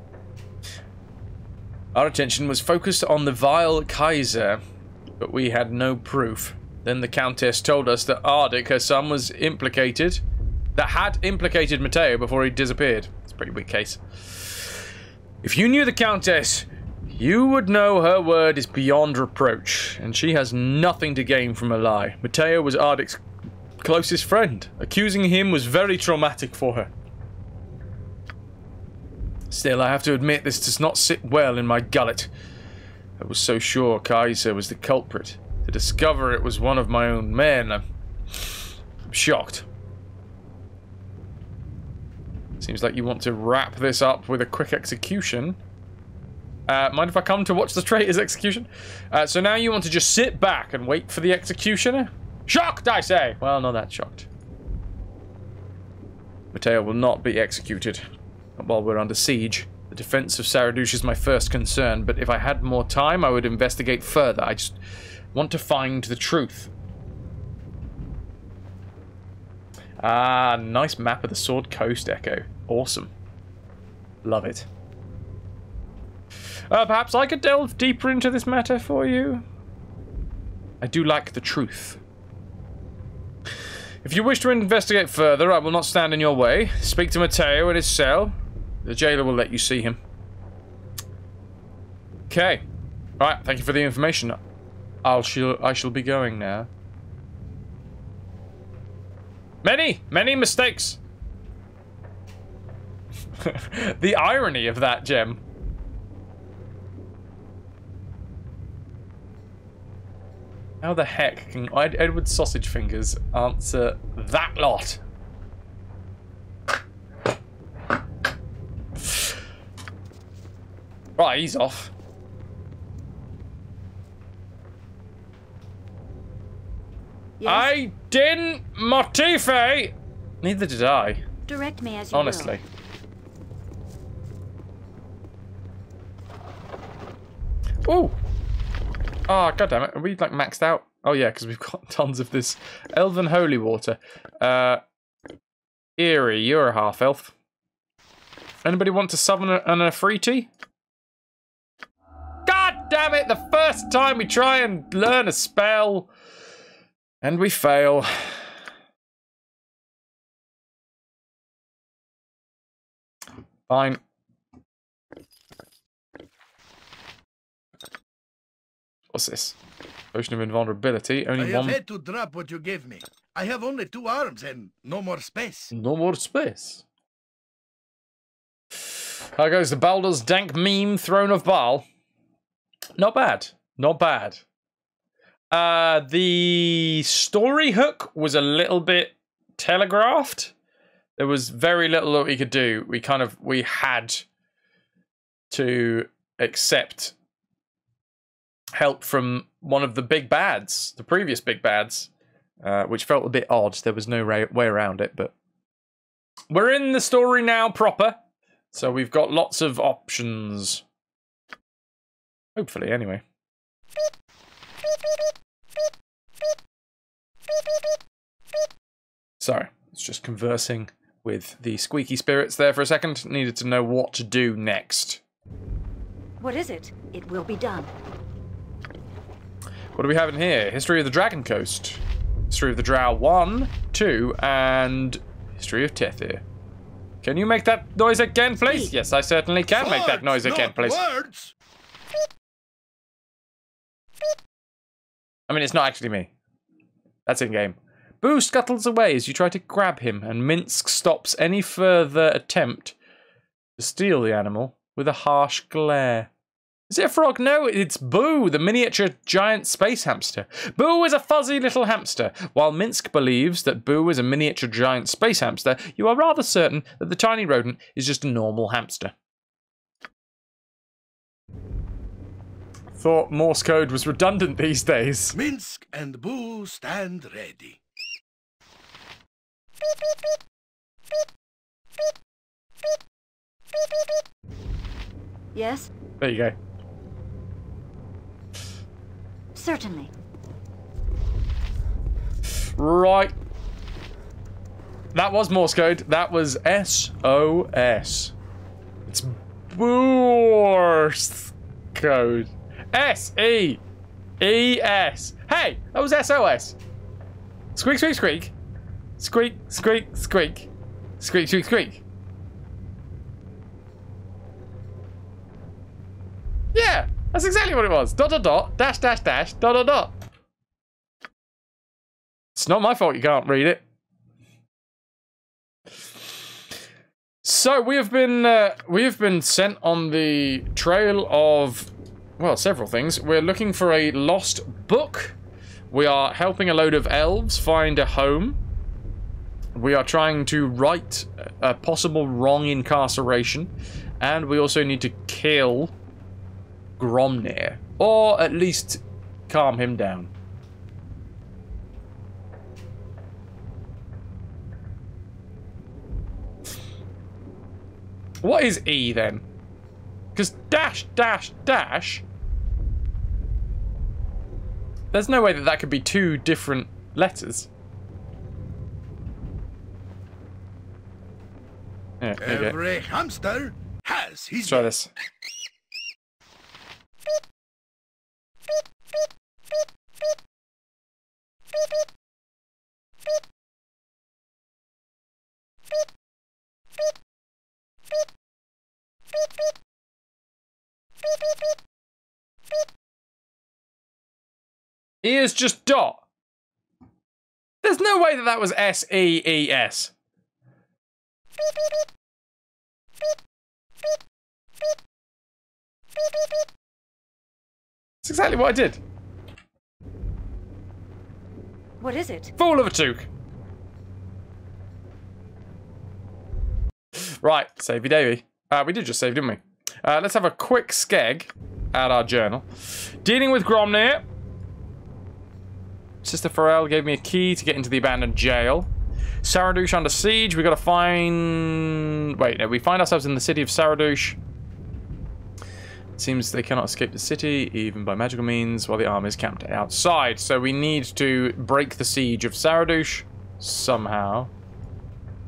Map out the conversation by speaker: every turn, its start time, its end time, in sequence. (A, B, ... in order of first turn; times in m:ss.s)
0:01.9-0:04.6 A
0:05.2-0:10.2 A
0:10.7-0:14.7 A
0:15.4-0:23.2 A
0:23.8-0:26.9 A
0:29.5-0:32.3 A
0:33.2-0:37.8 A
0:39.1-0:39.7 A
0:42.6-0:45.6 A
0:46.7-0:54.3 A
0:56.5-0:58.0 A
0:58.6-1:04.8 A
1:05.3-1:06.7 A
1:10.0-1:13.1 A
1:14.2-1:14.7 A
1:16.7-1:19.4 A
1:20.8-1:22.0 A
1:24.0-1:30.0 A
1:32.3-1:32.6 A
1:33.2-1:34.4 A
1:35.0-1:36.7 A
1:39.6-1:41.0 A
1:43.4-1:45.4 A
1:50.8-1:55.0 A
1:59.0-1:59.3 A
2:01.2-2:01.9 A
2:07.4-2:07.7 B
2:07.4-2:11.2 A
2:11.5-2:12.6 B
2:12.1-2:12.6 A
2:17.8-2:18.1 A
2:19.3-2:24.8 A
2:26.0-2:27.3 A
2:28.6-2:30.5 A
2:32.4-2:36.1 A
2:37.2-2:38.4 A
2:43.7-2:44.0 A
2:49.1-2:49.6 A
2:50.1-2:51.8 A
2:51.3-2:55.7 C
2:55.7-2:56.8 A
2:59.4-3:01.8 A
3:03.0-3:04.4 A
3:05.5-3:10.5 A
3:11.2-3:14.2 A
3:15.5-3:17.1 A
3:18.8-3:22.1 A
3:22.6-3:25.3 A
3:26.5-3:28.2 A
3:28.7-3:30.8 A
3:32.6-3:33.2 A
3:39.4-3:45.2 A
3:46.4-3:47.9 B
3:49.9-3:56.4 A
3:57.2-4:01.0 A
3:58.7-3:58.9 B
3:59.7-4:01.5 C
4:05.5-4:06.3 A
4:07.2-4:13.0 A
4:13.8-4:16.3 A
4:16.9-4:29.1 A
4:33.0-4:35.4 A
4:35.3-4:37.8 C
4:45.6-4:45.9 B
4:46.2-4:46.6 A
4:49.6-4:50.1 B
4:52.8-4:53.3 A
4:55.1-4:58.3 A
4:59.1-5:03.8 A
5:04.4-5:06.8 A
5:07.7-5:08.5 A
5:09.2-5:10.7 A
5:11.2-5:12.0 A
5:16.7-5:20.2 A
5:22.6-5:23.8 A
5:27.4-5:35.3 A
5:35.9-5:38.6 A
5:39.8-5:45.9 A
5:47.0-5:50.3 A
5:58.4-5:59.4 A
6:00.3-6:02.2 A
6:05.1-6:07.7 A
6:12.2-6:12.8 A
6:12.4-6:14.9 C
6:14.6-6:15.1 A
6:35.2-6:36.2 A
6:37.8-6:40.1 A
6:48.2-6:49.0 A
6:52.0-6:52.5 B
6:52.6-6:53.3 A
6:57.4-7:02.7 A
7:03.2-7:04.2 A
7:06.2-7:08.9 A
7:09.4-7:14.4 A
7:16.2-7:24.5 A